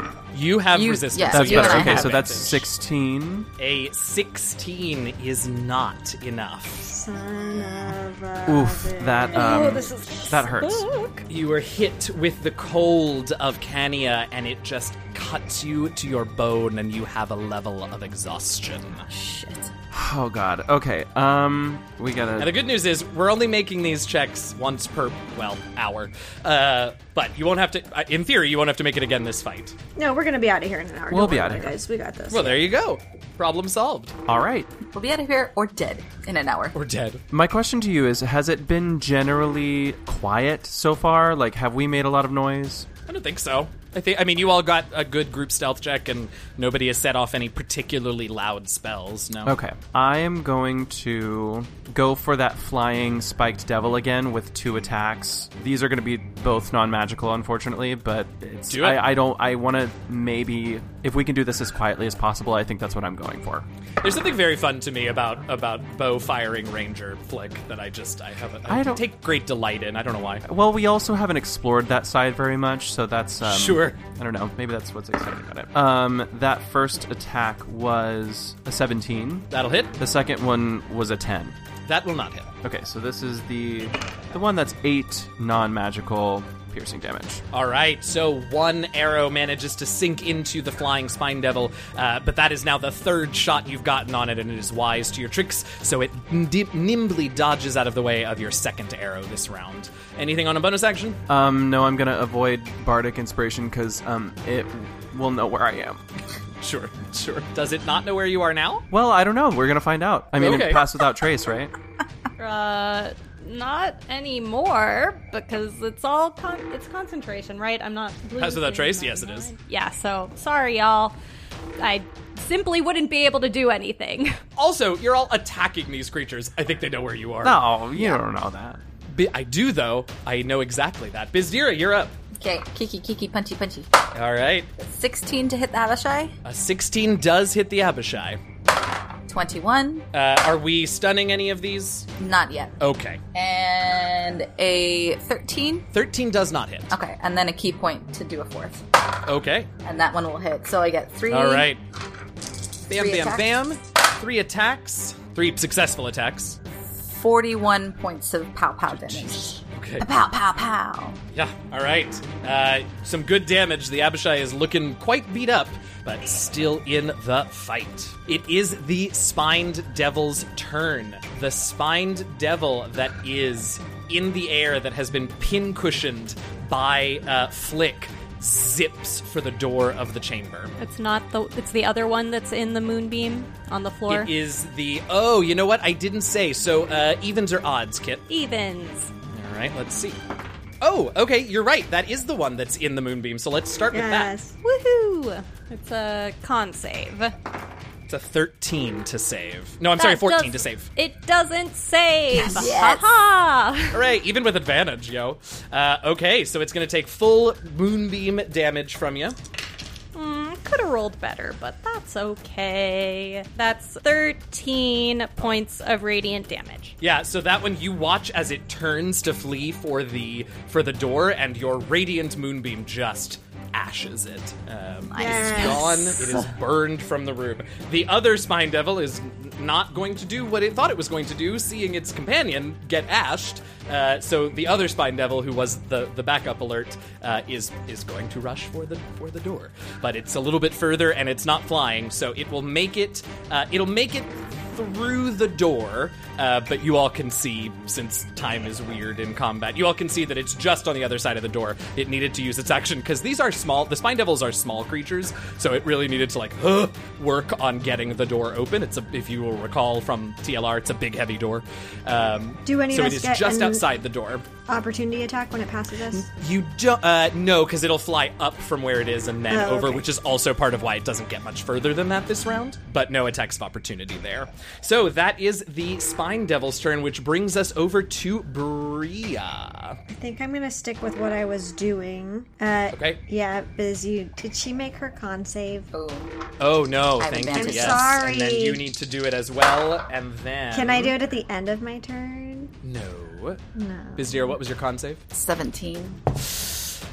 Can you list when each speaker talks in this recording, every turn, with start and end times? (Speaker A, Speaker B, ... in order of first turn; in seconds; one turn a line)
Speaker A: 0.3-2.7
Speaker B: 0.7-2.2
Speaker C: 1.3-3.5
Speaker A: 3.6-6.9
Speaker D: 6.8-10.0
Speaker C: 8.5-10.9
Speaker E: 9.3-11.2
Speaker A: 11.3-19.1
Speaker B: 19.1-19.7
Speaker C: 19.9-22.6
Speaker A: 22.4-29.8
Speaker D: 30.0-32.7
Speaker C: 31.1-31.8
Speaker A: 32.3-34.1
Speaker C: 34.3-34.7
Speaker B: 34.9-36.8
Speaker A: 36.7-37.2
Speaker C: 37.3-42.9
Speaker A: 43.1-49.6
Speaker C: 49.4-63.7
Speaker A: 58.7-59.0
Speaker A: 64.0-70.4
Speaker C: 68.7-69.1
Speaker C: 70.4-79.5
Speaker A: 73.4-74.0
Speaker A: 79.5-80.0
Speaker C: 80.0-81.6
Speaker A: 81.9-82.5
Speaker C: 82.6-87.4
Speaker A: 87.5-101.2
Speaker C: 101.3-106.0
Speaker A: 106.6-108.8
Speaker C: 108.9-111.7
Speaker A: 110.4-110.8
Speaker E: 112.4-121.2
Speaker A: 118.4-119.5
Speaker E: 121.8-124.4
Speaker A: 124.6-127.6
Speaker C: 127.4-128.8
Speaker A: 129.1-132.2
Speaker B: 132.4-133.9
Speaker A: 134.1-134.7
Speaker B: 134.8-136.3
Speaker A: 136.4-138.4
Speaker B: 139.3-140.1
Speaker A: 140.1-142.1
Speaker B: 142.2-142.7
Speaker A: 142.8-143.2
Speaker B: 143.3-145.9
Speaker A: 145.9-146.9
Speaker B: 146.9-148.8
Speaker A: 149.2-149.7
Speaker B: 149.8-151.7
Speaker A: 151.3-151.8
Speaker A: 152.9-156.6
Speaker B: 152.9-153.5
Speaker B: 156.9-161.2
Speaker A: 158.9-160.1
Speaker A: 161.3-180.7
Speaker E: 180.8-184.3
Speaker A: 184.1-188.2
Speaker E: 188.3-189.1
Speaker A: 189.3-190.2
Speaker A: 190.8-194.3
Speaker D: 193.9-194.6
Speaker E: 194.6-197.3
Speaker A: 198.1-200.9
Speaker E: 200.0-204.0
Speaker B: 202.3-203.1
Speaker A: 203.9-209.4
Speaker E: 210.2-216.9
Speaker A: 217.0-264.4
Speaker B: 225.1-226.5
Speaker D: 225.2-226.2
Speaker D: 262.6-263.8
Speaker D: 264.7-266.3
Speaker A: 266.1-280.0
Speaker D: 269.5-270.1
Speaker D: 280.1-285.9
Speaker A: 282.9-283.2
Speaker B: 285.9-286.3
Speaker A: 286.6-291.1
Speaker B: 287.2-288.3
Speaker D: 287.5-288.8
Speaker D: 290.7-292.7
Speaker A: 292.8-293.6
Speaker D: 293.8-294.6
Speaker A: 294.2-295.2
Speaker B: 295.3-296.2
Speaker A: 296.4-296.8